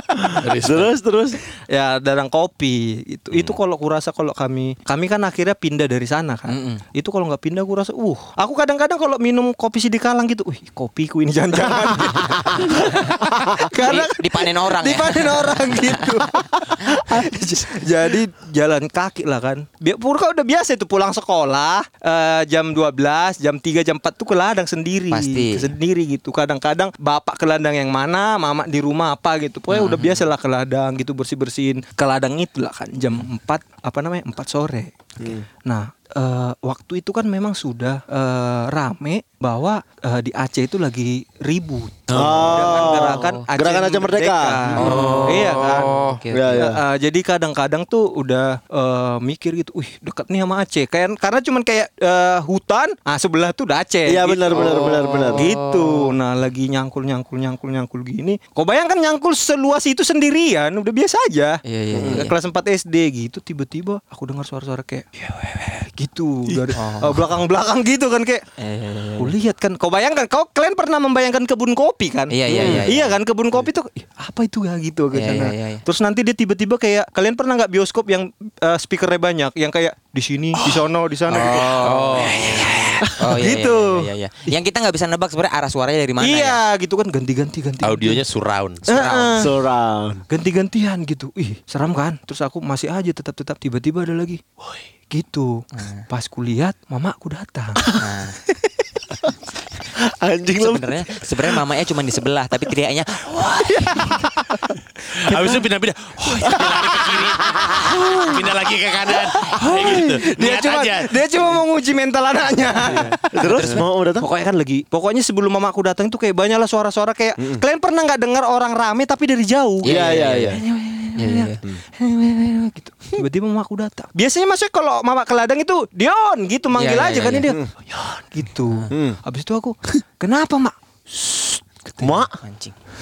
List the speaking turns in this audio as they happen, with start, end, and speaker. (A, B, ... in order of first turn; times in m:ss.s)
0:00.4-0:00.9 A
0:00.6-0:01.4 B
0:01.7-0:34.9 C
0:06.5-0:06.8 D
0:11.6-0:12.7 B
0:13.3-0:13.6 B
0:13.8-0:16.2 D
0:25.1-0:25.7 D
0:29.7-0:30.2 D
0:35.2-0:35.4 B
0:35.6-1:08.4 C
0:42.1-0:42.5 A
0:42.1-0:45.2 B
0:42.8-0:43.4 D
0:44.8-0:46.7 D
0:44.8-0:45.4 A
0:46.3-0:46.8 B
0:54.0-0:55.5 B
0:54.5-0:56.1 D
1:01.6-1:02.3 D
1:01.9-1:02.3 B
1:06.7-1:07.2 D
1:08.6-1:09.3 D
1:09.2-1:24.1 C
1:12.3-1:13.2 D
1:15.1-1:15.8 D
1:21.3-1:26.6 D
1:21.6-1:22.8 E
1:26.2-1:28.2 C
1:27.8-1:28.8 E
1:28.8-1:29.4 D
1:28.8-1:29.5 C
1:29.4-1:30.2 B
1:30.3-1:34.4 C
1:35.1-1:38.0 C
1:35.7-1:36.0 D
1:37.9-1:38.4 D
1:39.9-1:41.2 B
1:40.6-1:44.2 D
1:43.7-1:44.1 C
1:45.1-1:51.5 A
1:45.3-1:45.6 C
1:46.5-1:46.9 B
1:47.4-1:48.4 B
1:49.5-2:12.3 C
1:49.6-1:50.1 B
1:52.8-1:53.2 A
1:53.3-1:54.2 B
1:59.8-2:00.6 D
1:59.8-2:00.6 B
2:01.2-2:01.6 D
2:06.7-2:07.5 D
2:08.7-2:08.9 D
2:08.9-2:09.2 B
2:12.0-2:12.3 B
2:12.4-2:12.7 D